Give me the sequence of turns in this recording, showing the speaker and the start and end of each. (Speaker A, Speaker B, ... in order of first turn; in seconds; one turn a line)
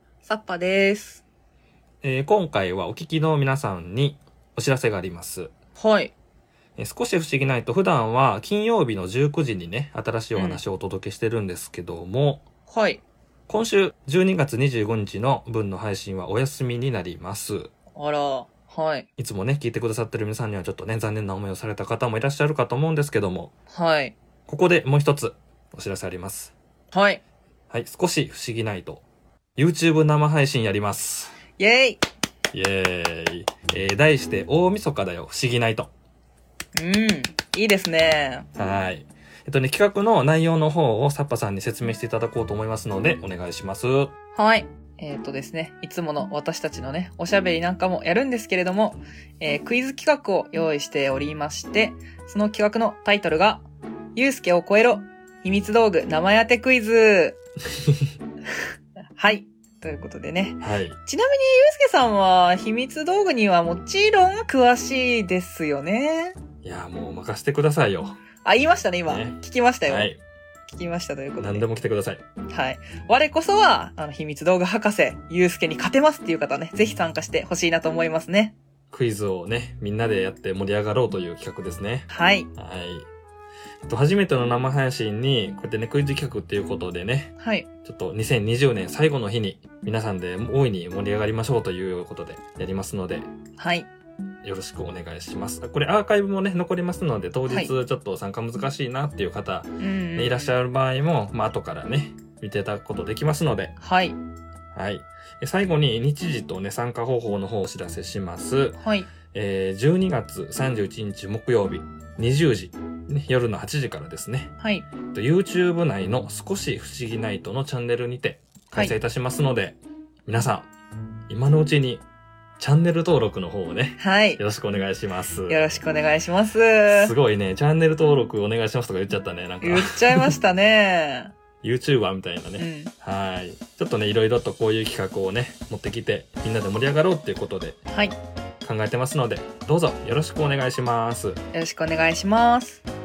Speaker A: 0.2-1.2
Speaker B: 2.0-5.5
Speaker A: 5.8-6.1
Speaker B: 6.8-12.4
Speaker A: 10.3-10.6
Speaker A: 12.7-13.0
Speaker B: 13.5-17.7
Speaker A: 17.9-19.1
Speaker B: 19.2-23.5
Speaker A: 23.7-24.1
Speaker B: 24.5-26.5
Speaker A: 26.9-27.2
Speaker B: 27.7-29.0
Speaker B: 29.6-31.4
Speaker A: 31.6-32.0
Speaker B: 32.5-35.9
Speaker A: 36.8-38.5
Speaker B: 38.5-44.1
Speaker A: 44.3-53.6
Speaker A: 54.1-57.4
Speaker A: 59.1-66.4
Speaker B: 60.6-61.0
Speaker B: 66.6-68.2
Speaker A: 68.4-70.1
Speaker B: 69.1-70.2
Speaker A: 70.7-71.7
Speaker B: 71.4-72.2
Speaker A: 72.5-78.5
Speaker B: 78.9-83.1
Speaker A: 82.1-82.5
Speaker B: 83.9-87.3
Speaker A: 87.4-87.7
Speaker B: 87.8-93.3
Speaker A: 93.6-93.9
Speaker B: 94.4-103.7
Speaker A: 99.8-100.5
Speaker A: 103.8-104.2
Speaker B: 104.7-108.8
Speaker A: 108.8-109.1
Speaker B: 109.3-114.5
Speaker A: 114.6-114.9
Speaker B: 115.1-120.7
Speaker B: 121.3-122.0
Speaker B: 122.6-125.8
Speaker A: 124.0-124.4
Speaker A: 125.5-127.1
Speaker B: 126.9-130.4
Speaker A: 129.6-131.3
Speaker B: 131.6-137.8
Speaker A: 132.6-132.9
Speaker A: 137.9-138.2
Speaker B: 138.6-141.4
Speaker A: 141.5-142.8